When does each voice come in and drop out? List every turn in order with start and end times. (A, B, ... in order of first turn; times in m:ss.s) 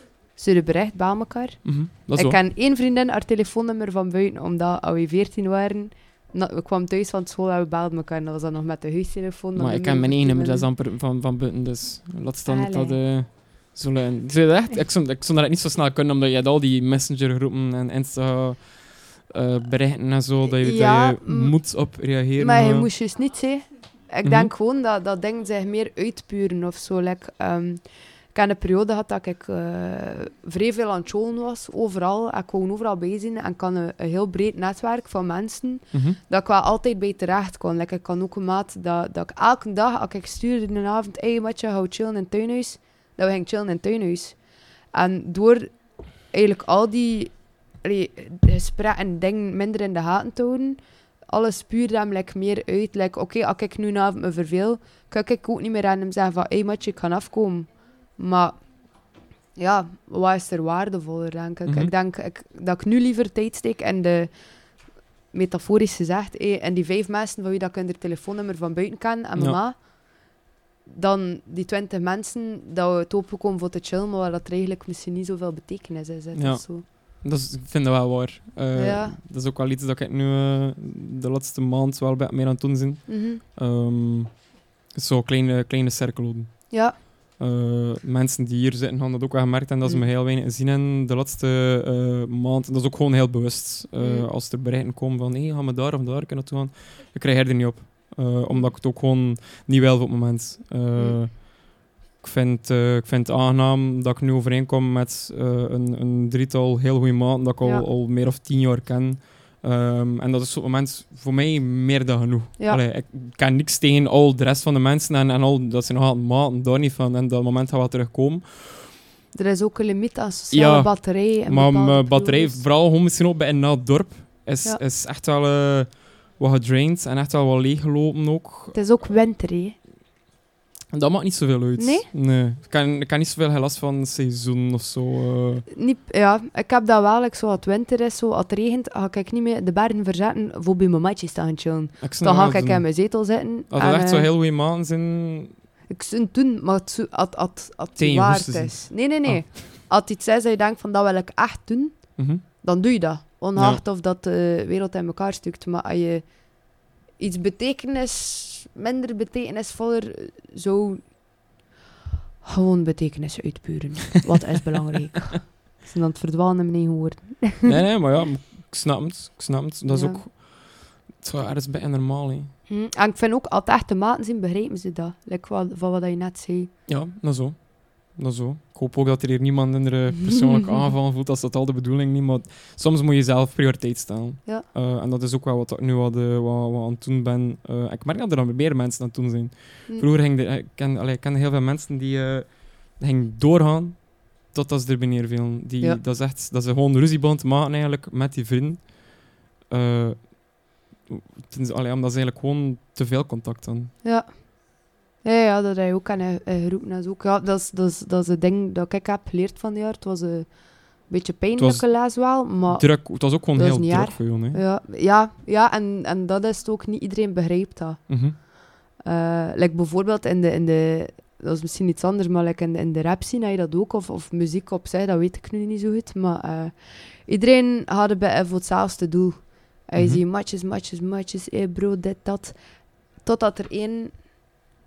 0:00.4-0:10.6 A
0:01.6-0:02.4 B
0:09.5-0:22.9 B
0:12.5-0:13.0 A
0:20.4-1:16.8 A
0:24.2-0:24.5 B
0:35.9-0:36.2 B
1:01.6-1:01.9 B
1:09.4-1:09.6 B
1:16.3-1:58.9 B
1:18.7-1:19.2 A
1:23.1-1:23.4 A
1:26.7-1:27.0 A
1:34.0-1:34.3 A
1:38.5-1:38.7 A
1:59.3-2:02.6 A
2:00.5-2:08.7 B
2:08.7-2:09.8 A
2:10.9-2:15.7 B
2:11.8-2:12.1 A
2:15.7-2:24.3 A
2:22.0-2:25.6 B
2:25.9-2:41.2 A
2:28.0-2:29.6 B
2:32.2-2:32.4 B
2:33.5-2:33.8 B
2:42.4-2:47.7 A
2:47.6-2:52.5 B
2:49.9-2:50.2 A
2:52.7-2:56.7 A
2:56.9-3:23.9 B
3:24.0-3:54.2 A
3:31.6-3:34.6 B
3:38.1-3:38.4 B
3:50.0-3:50.2 B